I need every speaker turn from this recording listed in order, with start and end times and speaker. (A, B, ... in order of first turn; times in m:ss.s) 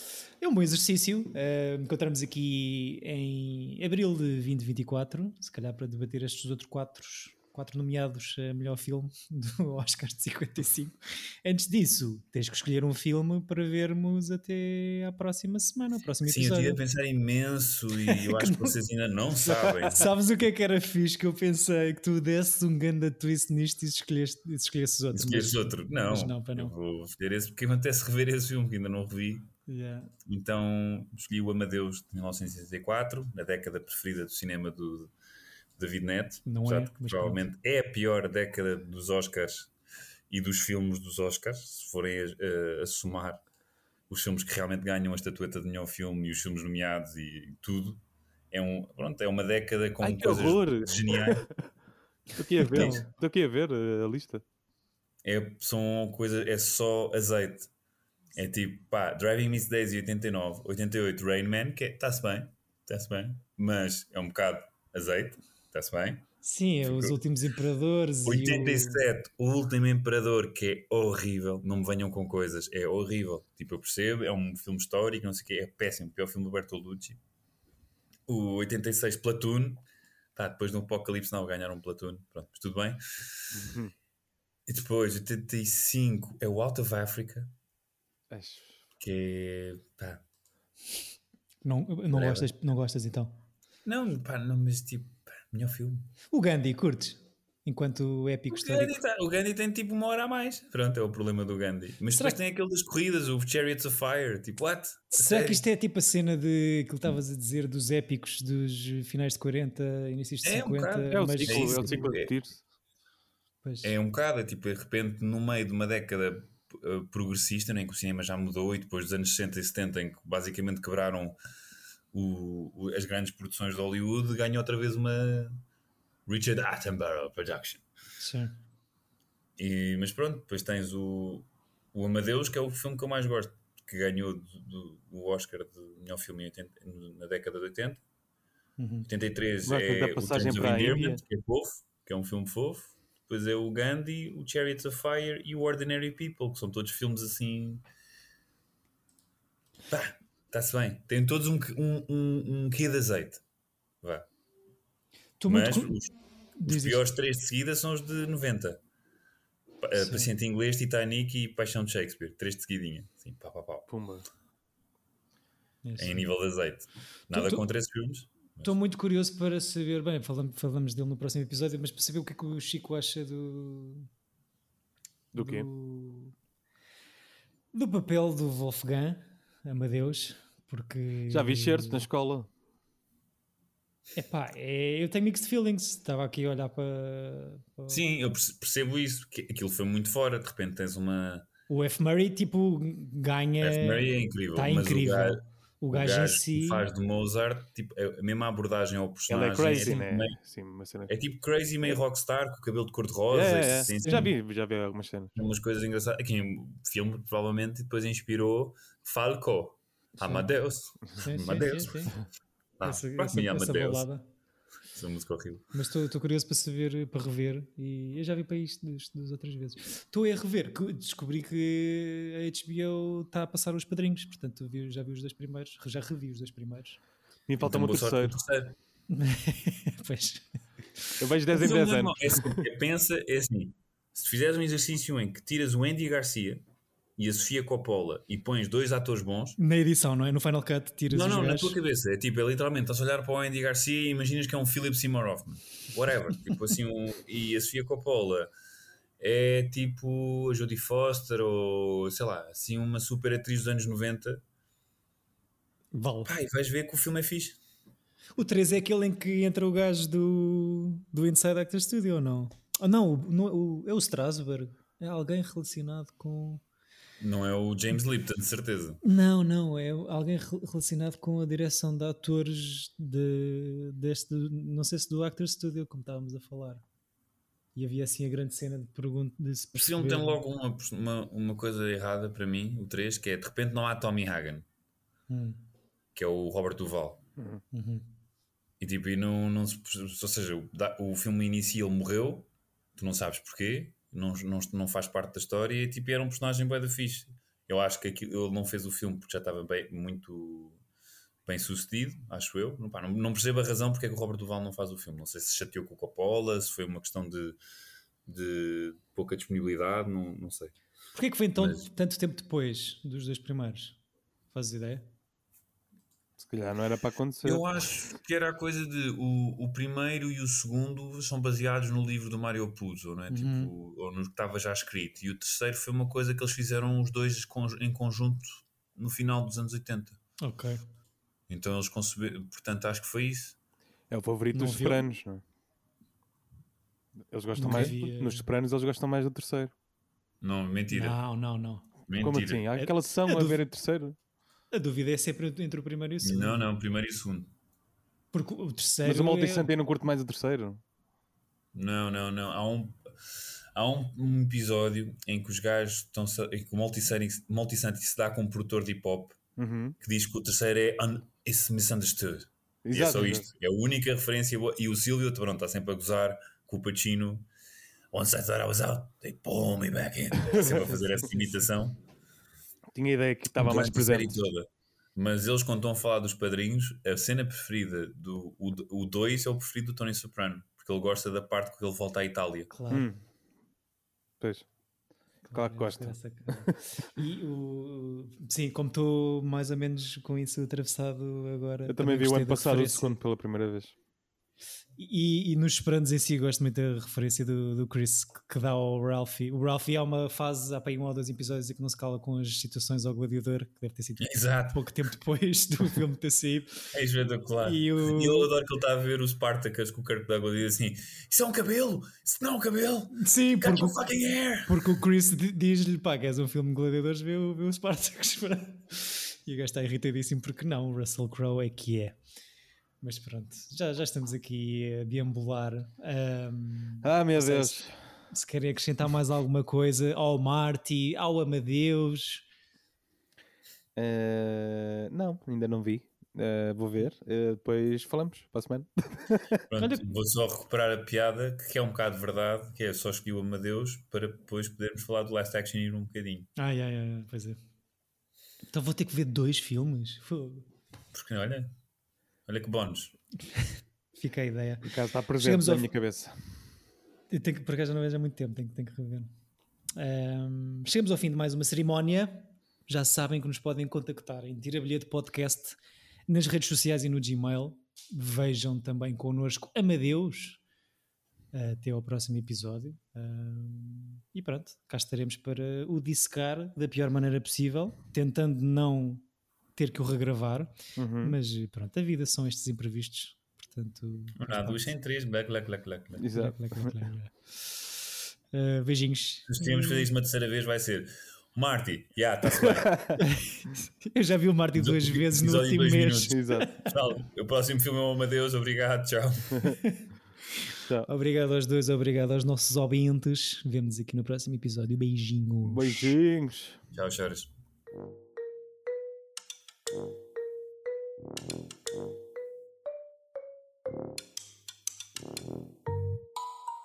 0:00.4-0:16.8 A
0:16.2-0:20.1 B
0:18.0-0:18.7 A
0:19.8-0:26.7 A
0:25.1-0:29.5 B
0:29.7-0:30.1 A
0:30.2-0:35.1 B
0:35.8-0:39.7 B
0:36.4-0:37.4 A
0:40.3-0:43.4 B
0:44.1-0:51.5 B
0:50.0-0:51.5 C
0:52.4-0:54.4 C
0:52.7-0:53.1 A
0:52.7-0:53.0 B
0:55.2-0:57.7 B
0:58.3-1:06.2 B
1:06.4-1:09.0 A
1:06.8-1:07.2 B
1:08.2-1:17.2 B
1:18.3-1:19.8 B
1:20.4-1:23.6 B
1:23.5-1:23.9 C
1:24.6-1:27.5 B
1:28.3-1:28.8 C
1:29.0-1:30.2 B
1:31.6-1:33.4 A
1:32.1-1:32.5 B
1:33.8-1:36.1 B
1:36.3-1:39.0 A
1:38.5-1:45.6 B
1:42.1-1:42.4 A
1:45.1-1:52.0 A
1:50.4-1:52.3 B
1:51.1-1:52.6 C
1:53.6-1:54.0 A
1:53.8-2:01.4 B
2:02.1-2:05.6 B
2:06.3-2:07.8 B
2:08.2-2:08.5 A
2:09.6-2:18.0 B
2:18.8-2:19.1 A
2:19.1-2:27.8 B
2:19.7-2:21.2 C
2:29.9-2:33.4 B
2:34.0-2:34.3 B
2:35.4-2:36.0 A
2:35.5-2:36.1 B
2:36.6-2:37.1 A
2:36.6-2:38.8 B
2:39.8-2:43.9 B
2:39.9-2:40.3 A
2:43.9-2:44.3 C
2:45.8-2:46.2 A
2:46.0-2:48.7 B
2:47.3-2:47.6 A
2:48.6-2:54.1 A
2:55.3-2:55.7 C
2:55.3-2:56.3 A
2:57.7-3:02.0 A
3:01.3-3:02.5 C
3:04.2-3:08.0 A
3:07.9-3:11.5 B
3:11.7-3:16.9 A
3:13.6-3:20.4 B
3:19.3-3:21.1 C
3:21.1-3:24.3 B
3:23.3-3:25.4 C
3:24.0-3:24.3 A
3:25.4-3:32.2 B
3:30.2-3:30.5 A
3:31.1-3:32.2 A
3:32.8-3:34.0 B
3:32.8-3:34.2 A
3:34.9-3:35.6 B
3:35.7-3:47.0 A
3:47.5-3:48.4 C
3:47.6-3:48.8 B
3:49.1-3:50.4 A
3:51.0-3:51.2 A
3:51.2-3:52.4 C
3:51.5-3:56.6 B
3:57.2-3:59.6 B
3:59.6-4:01.8 A
4:01.1-4:08.5 B
4:09.2-4:14.4 B
4:15.9-4:16.3 A
4:16.2-4:17.6 B
4:18.4-4:26.6 A
4:27.2-4:29.0 B
4:29.0-4:36.8 A
4:37.8-4:40.4 A
4:39.7-4:44.6 B
4:45.3-4:45.6 A
4:46.1-4:47.2 B
4:47.7-4:48.0 A
4:48.8-5:00.8 B
5:01.4-5:07.6 B
5:08.2-5:10.8 B
5:11.1-5:14.0 A
5:11.6-5:11.8 B
5:14.5-5:15.1 A
5:16.4-5:17.6 C
5:17.4-5:30.2 B
5:23.3-5:23.7 A
5:30.4-5:30.8 A
5:31.5-5:33.6 B
5:34.1-5:35.4 C
5:34.5-5:35.0 A
5:37.3-5:39.7 C
5:37.6-5:38.4 A
5:40.4-5:41.2 B
5:40.9-5:41.9 A
5:42.1-5:42.7 B
5:42.2-5:44.2 C
5:42.8-5:43.6 A
5:44.7-5:46.7 A
5:46.2-5:47.5 B
5:48.3-5:49.7 A
5:49.0-5:50.8 C
5:51.7-5:59.4 B
5:59.6-6:00.0 C
6:00.0-6:07.5 B
6:02.8-6:03.5 C
6:08.1-6:12.0 B
6:10.9-6:11.5 A
6:12.9-6:14.4 C
6:13.6-6:22.7 B
6:22.7-6:23.1 A
6:22.9-6:23.2 C
6:24.4-6:24.6 C
6:25.5-6:33.1 A
6:25.5-6:26.8 C
6:31.9-6:33.9 C
6:35.0-6:46.8 A
6:44.2-6:44.9 B
6:46.9-6:55.0 B
6:47.6-6:48.5 A
6:53.1-6:54.0 A
6:54.6-7:02.2 A
7:03.0-7:12.4 A
7:07.0-7:08.0 C
7:14.0-7:19.6 C
7:19.7-7:26.5 B
7:19.8-7:20.0 A
7:26.6-7:27.6 A
7:28.7-7:30.7 A
7:31.1-7:31.7 B
7:32.5-7:33.2 B
7:34.2-7:35.9 A
7:34.8-7:36.4 C
7:37.3-7:39.3 A
7:40.0-7:50.6 A
7:51.5-7:59.2 A
7:59.8-8:04.9 A
8:01.0-8:01.3 C
8:04.4-8:06.3 B
8:06.2-8:06.9 C
8:06.3-8:10.1 A
8:09.5-8:13.1 B
8:12.6-8:13.2 C
8:13.2-8:16.8 A
8:14.7-8:19.7 B
8:16.3-8:16.7 C
8:21.1-8:26.1 A
8:25.6-8:26.8 C
8:26.9-8:27.5 B